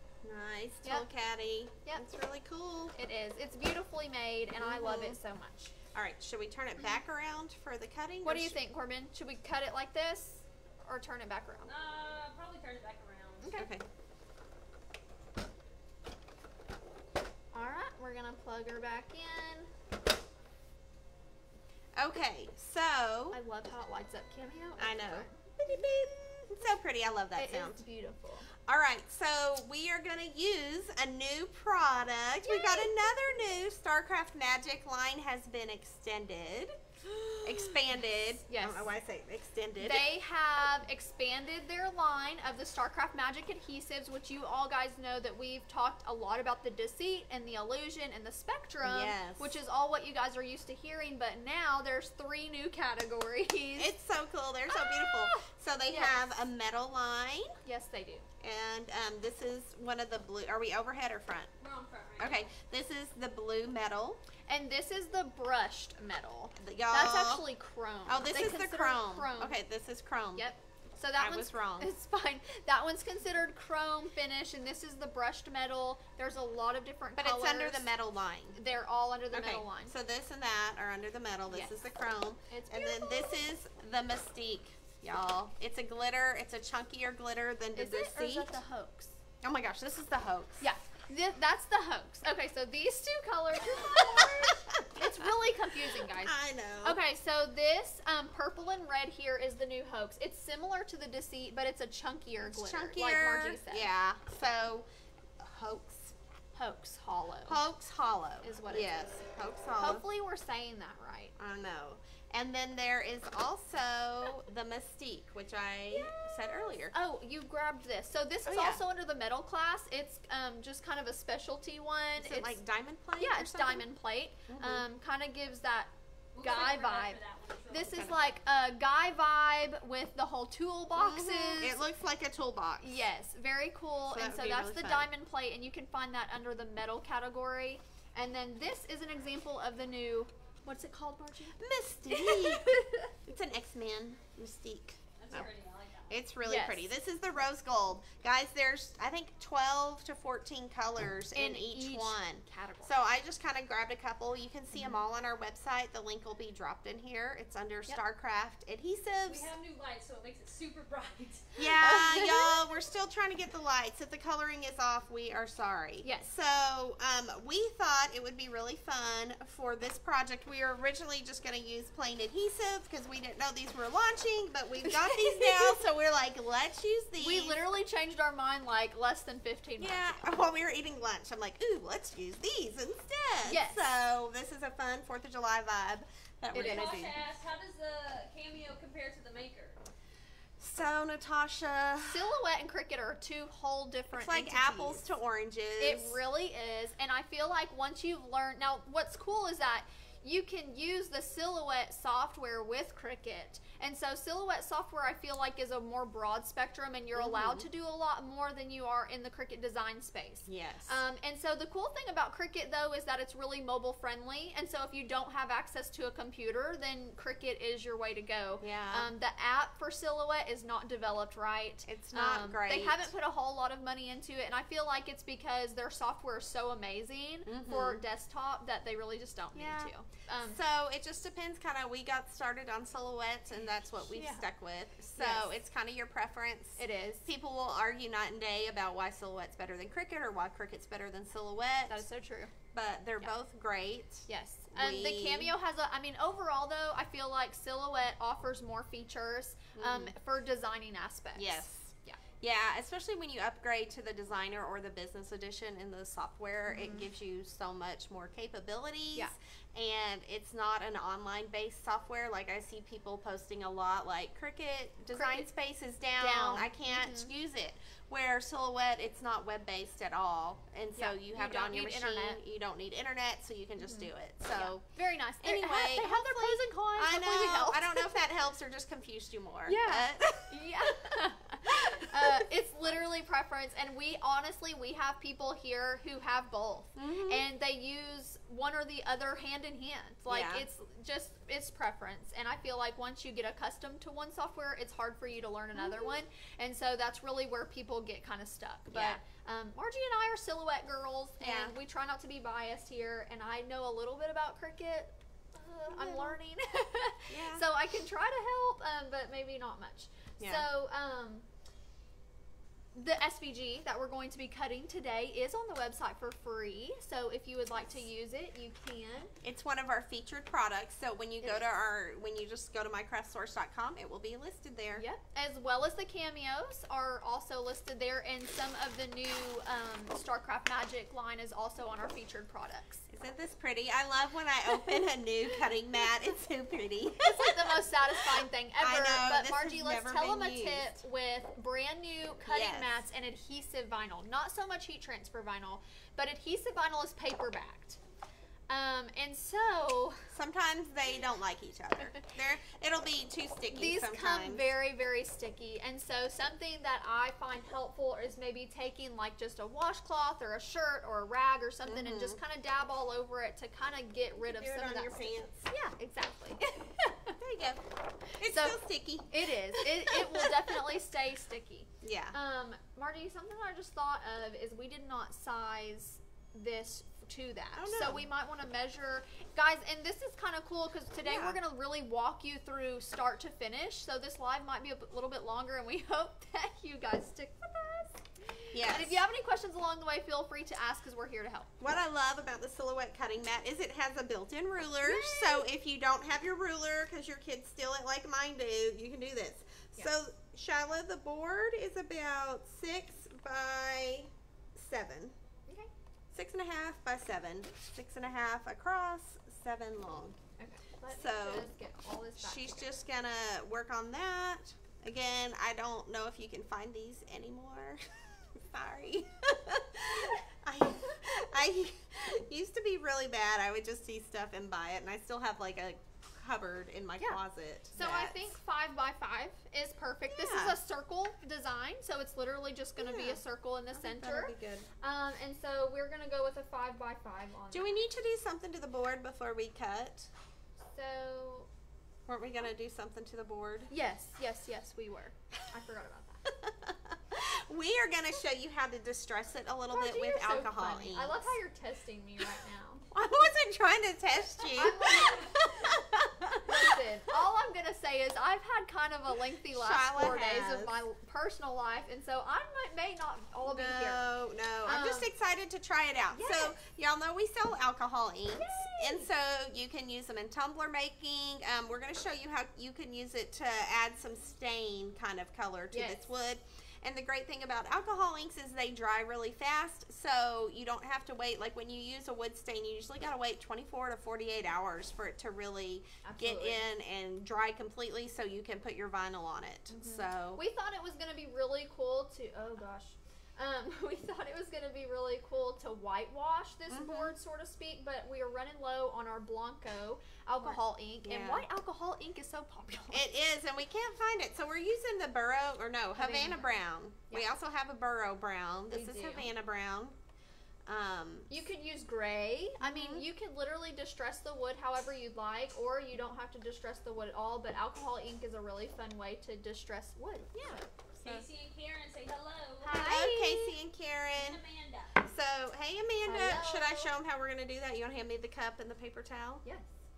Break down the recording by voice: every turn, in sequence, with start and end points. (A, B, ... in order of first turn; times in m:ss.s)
0:00.2-0:02.9 A
0:03.0-0:05.7 B
0:04.6-0:05.2 A
0:05.9-0:08.6 A
0:08.2-0:11.7 B
0:11.7-0:13.5 C
0:13.4-0:13.7 B
0:13.5-0:13.9 A
0:17.5-0:19.7 B
0:22.0-0:23.4 A
0:23.3-0:25.4 B
0:24.8-0:27.8 A
0:27.4-0:28.5 B
0:28.6-0:36.8 A
0:32.4-0:33.3 B
0:37.1-0:37.8 B
0:37.4-0:40.1 A
0:38.5-0:38.9 B
0:39.8-0:53.9 B
0:48.8-0:49.6 A
0:53.8-0:57.6 A
0:54.7-0:56.3 B
0:57.6-0:58.3 B
0:58.4-1:01.5 A
1:01.6-1:02.5 C
1:02.2-1:04.2 A
1:04.5-1:09.6 B
1:06.6-1:07.5 A
1:08.1-1:10.5 A
1:10.4-1:17.9 B
1:11.2-1:11.9 A
1:17.2-1:18.6 A
1:18.6-1:19.9 B
1:19.3-1:28.5 A
1:21.5-1:21.8 B
1:22.5-1:23.4 B
1:27.8-1:29.2 B
1:29.4-1:30.7 A
1:30.6-1:43.9 B
1:33.7-1:37.0 A
1:42.4-1:44.9 A
1:45.4-1:46.2 A
1:46.6-1:47.6 B
1:47.4-1:50.0 A
1:48.4-1:49.1 B
1:49.8-1:51.4 B
1:51.4-1:57.0 A
1:55.9-1:56.2 B
1:56.9-2:02.6 B
1:58.5-1:58.8 A
2:02.2-2:03.9 A
2:03.2-2:11.8 B
2:04.5-2:04.8 A
2:06.4-2:08.4 C
2:10.9-2:13.0 A
2:12.8-2:21.6 B
2:14.1-2:15.1 A
2:21.6-2:25.5 A
2:22.1-2:23.1 B
2:25.2-2:26.2 C
2:26.1-2:39.5 A
2:26.4-2:26.9 B
2:31.4-2:32.9 B
2:39.2-2:41.6 C
2:41.6-2:57.6 A
2:41.8-2:42.6 B
2:46.0-2:46.3 B
2:54.8-2:55.8 B
2:57.2-3:00.4 B
2:59.8-3:07.2 A
3:03.4-3:03.9 B
3:06.5-3:06.9 B
3:06.6-3:09.8 C
3:10.6-3:12.3 A
3:12.0-3:15.1 B
3:14.2-3:16.2 A
3:15.8-3:50.6 B
3:27.2-3:27.7 A
3:30.5-3:31.0 A
3:38.6-3:39.1 A
3:41.9-3:43.1 A
3:47.5-3:48.0 A
3:49.6-4:02.1 A
3:54.1-3:54.4 B
3:55.2-3:55.5 B
3:56.8-3:57.3 B
4:01.9-4:02.5 B
4:02.7-4:05.5 A
4:04.3-4:12.2 B
4:09.8-4:10.1 A
4:11.4-4:34.8 A
4:16.7-4:17.1 B
4:25.1-4:25.5 B
4:26.2-4:27.3 B
4:31.0-4:32.4 B
4:33.8-4:38.1 B
4:35.4-4:40.6 A
4:39.7-5:11.4 B
4:41.7-4:42.4 A
4:47.0-4:47.4 A
4:50.3-4:50.7 A
4:55.8-4:56.2 A
4:58.9-4:59.2 A
5:01.4-5:01.8 A
5:05.8-5:06.4 A
5:07.3-5:07.6 A
5:10.4-5:10.7 A
5:12.9-5:19.4 B
5:19.4-5:25.0 A
5:25.0-5:33.1 B
5:33.1-5:41.0 A
5:37.2-5:48.0 B
5:42.5-5:43.0 A
5:48.7-5:50.3 B
5:50.3-5:54.7 A
5:53.7-6:07.4 B
6:01.8-6:02.4 A
6:04.4-6:05.6 A
6:07.4-6:07.8 A
6:08.4-6:11.0 A
6:08.4-6:31.7 B
6:12.0-6:12.4 A
6:17.8-6:18.3 A
6:21.2-6:21.6 A
6:28.7-6:29.2 A
6:31.8-6:45.4 A
6:35.0-6:35.7 B
6:46.3-6:50.4 A
6:50.6-6:52.9 B
6:51.1-6:51.7 A
6:52.4-7:08.6 A
7:07.9-7:18.0 B
7:10.3-7:10.8 A
7:13.0-7:13.4 A
7:13.9-7:14.9 A
7:17.7-7:20.3 A
7:20.8-7:21.7 B
7:22.3-7:23.9 A
7:23.9-7:26.5 B
7:26.5-7:31.5 A
7:29.9-7:33.1 B
7:33.1-7:37.0 A
7:34.7-7:35.7 B
7:36.6-7:44.3 B
7:39.7-7:41.0 A
7:43.7-8:10.6 A
7:44.8-7:45.3 B
7:46.3-7:46.8 B
7:48.6-7:49.3 B
7:55.9-7:56.2 B
8:06.2-8:06.9 B
8:09.9-8:23.3 B
8:16.9-8:17.4 A
8:20.6-8:21.7 A
8:23.1-8:30.2 A
8:26.2-8:26.8 B
8:28.9-8:29.5 B
8:30.9-8:31.6 A
8:31.5-8:40.9 B
8:32.8-8:33.3 A
8:40.7-8:41.5 A
8:41.2-8:43.0 C
8:42.8-8:43.8 B
8:42.8-8:44.6 A
8:44.3-8:45.2 C
8:45.3-8:49.6 A
8:46.3-8:47.1 B
8:49.6-8:49.9 B